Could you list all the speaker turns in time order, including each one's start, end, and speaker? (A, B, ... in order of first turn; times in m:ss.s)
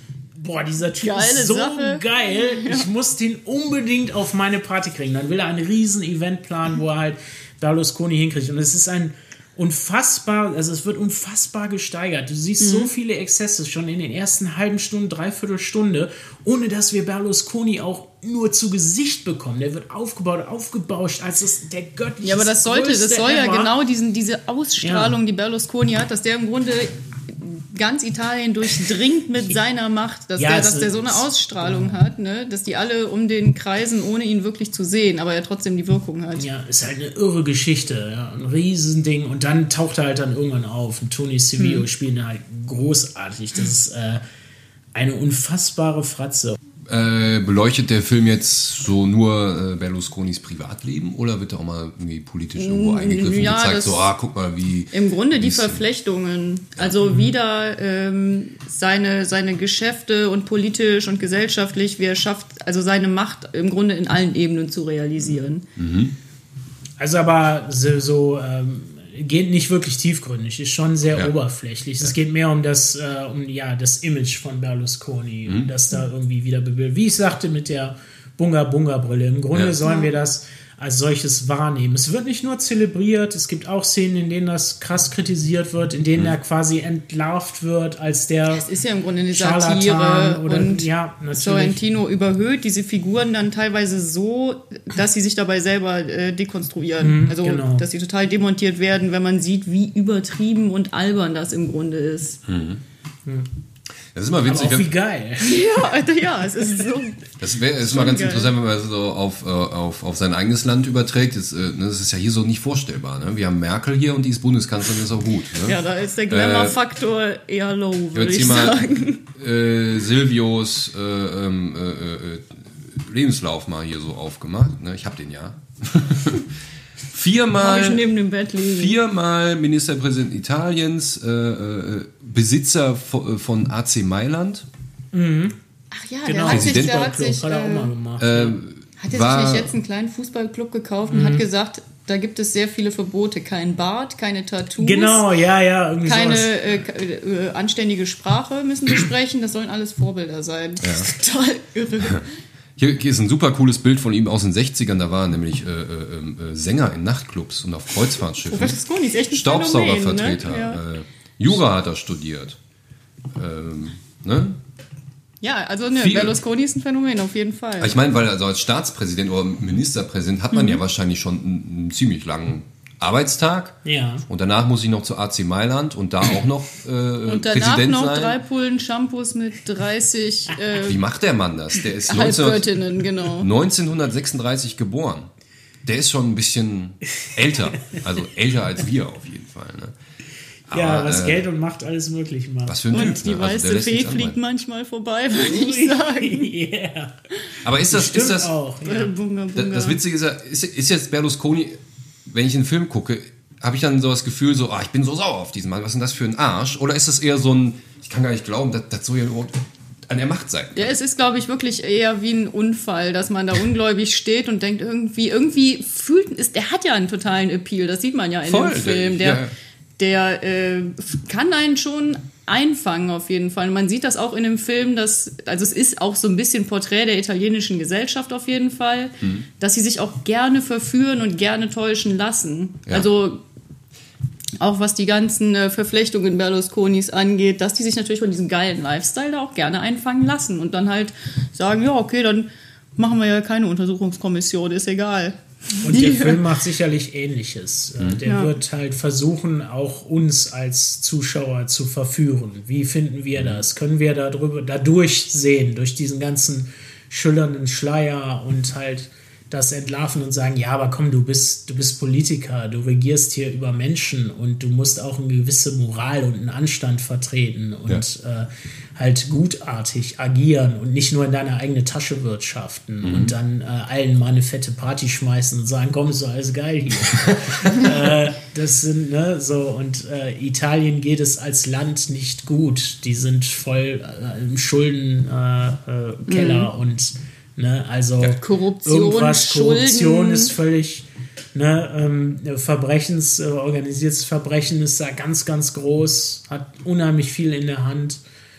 0:00.4-0:23.8 A
0:01.0-0:02.9 B
0:12.6-0:12.9 B
0:22.2-0:36.5 B
0:24.8-0:25.2 A
0:30.4-0:32.0 A
0:36.4-0:44.2 A
0:41.6-0:41.9 B
0:44.9-0:46.6 A
0:46.9-0:55.8 C
0:52.6-0:54.1 B
0:54.9-1:05.6 B
0:57.1-0:57.3 A
1:05.2-1:06.2 C
1:07.0-1:28.7 A
1:15.5-1:15.7 C
1:19.8-1:20.1 B
1:28.5-1:42.4 B
1:29.3-1:31.8 A
1:37.0-1:37.8 A
1:42.5-1:42.8 C
1:44.1-1:44.9 C
1:44.4-1:45.7 A
1:45.4-1:47.3 B
1:47.4-1:56.8 C
1:47.8-1:48.5 B
1:55.6-1:59.2 B
1:58.1-2:06.4 C
2:07.1-2:08.1 C
2:07.6-2:09.0 B
2:08.6-2:14.6 C
2:15.1-2:15.6 A
2:15.9-2:17.9 B
2:16.2-2:18.6 A
2:16.5-2:17.1 C
2:18.2-2:19.8 C
2:19.0-2:25.3 B
2:21.1-2:21.5 A
2:24.8-2:26.6 A
2:26.0-2:32.2 B
2:30.8-2:31.1 C
2:32.8-2:38.8 C
2:38.5-2:40.8 B
2:39.3-2:42.6 C
2:43.4-2:44.6 C
2:45.4-2:48.0 B
2:45.9-2:46.4 C
2:47.8-2:58.4 C
2:50.5-2:50.8 B
2:53.8-2:54.2 A
2:57.3-3:01.0 B
3:00.8-3:02.8 C
3:01.8-3:03.5 B
3:03.4-3:05.3 C
3:05.8-3:09.9 C
3:10.7-3:11.5 C
3:10.7-3:13.2 A
3:12.7-3:14.4 C
3:12.9-3:16.5 B
3:15.4-3:17.1 A
3:17.6-3:18.5 C
3:17.9-3:19.1 A
3:18.8-3:20.0 B
3:19.6-3:31.0 C
3:30.8-3:39.4 B
3:38.4-3:39.5 C
3:40.0-3:53.4 B
3:49.2-3:49.5 C
3:54.6-4:06.4 B
4:05.8-4:58.2 A
4:08.2-4:08.6 B
4:13.4-4:13.6 C
4:33.0-4:33.4 C
4:46.3-4:46.7 B
4:48.2-4:50.5 B